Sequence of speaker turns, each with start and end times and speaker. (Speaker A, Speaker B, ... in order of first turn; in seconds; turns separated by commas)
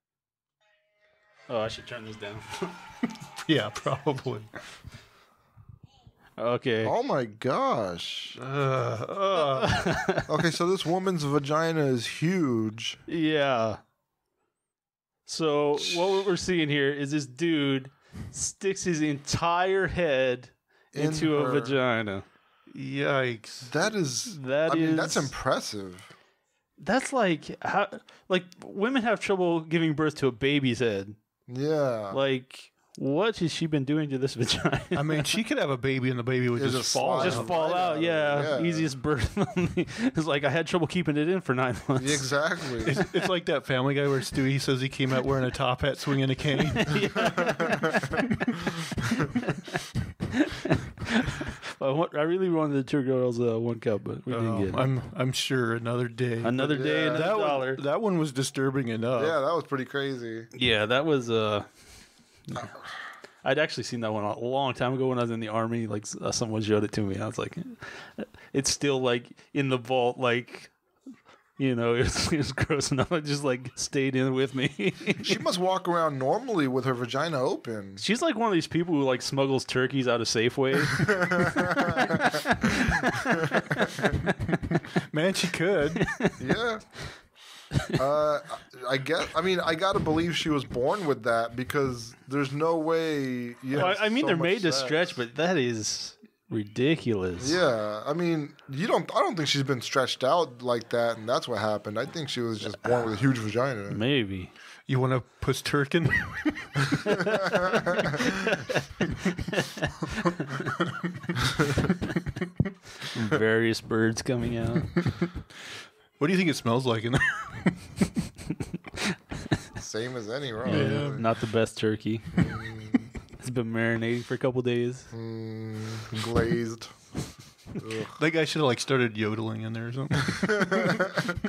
Speaker A: 1.5-2.7, Speaker B: 3.4-4.5, Speaker A: 6.4-6.9, Speaker C: 6.8-8.4, Speaker B: 8.4-9.9, Speaker A: 9.4-10.2, Speaker C: 10.3-13.0, Speaker A: 13.1-13.8, Speaker A: 15.2-22.2, Speaker C: 15.8-16.3, Speaker C: 20.9-21.8, Speaker B: 22.7-23.7, Speaker C: 23.6-26.1, Speaker A: 24.3-25.3, Speaker A: 26.8-31.2, Speaker C: 31.5-32.2, Speaker A: 32.1-35.2, Speaker B: 34.9-37.6, Speaker C: 36.5-38.9, Speaker A: 37.1-42.4, Speaker C: 42.0-43.0, Speaker B: 42.8-47.3, Speaker A: 46.7-48.2, Speaker A: 50.5-54.9, Speaker B: 54.3-59.4, Speaker A: 56.4-57.8, Speaker C: 56.6-57.3, Speaker C: 59.1-60.5, Speaker A: 60.5-61.8, Speaker A: 62.5-62.8, Speaker A: 63.4-70.8, Speaker A: 71.6-75.3, Speaker C: 75.2-78.0, Speaker A: 78.0-84.0, Speaker B: 85.1-86.1, Speaker A: 86.0-86.3, Speaker C: 86.4-87.3, Speaker C: 88.0-95.1, Speaker A: 93.7-97.6, Speaker C: 97.4-104.0, Speaker A: 103.9-104.5, Speaker B: 104.9-107.1, Speaker A: 109.5-110.7, Speaker A: 113.1-115.0, Speaker B: 116.2-118.1, Speaker C: 119.8-121.2, Speaker B: 120.6-121.2, Speaker A: 120.7-122.7, Speaker C: 122.3-123.1, Speaker A: 123.3-125.1, Speaker C: 125.1-128.2, Speaker B: 128.2-131.1, Speaker C: 130.5-131.1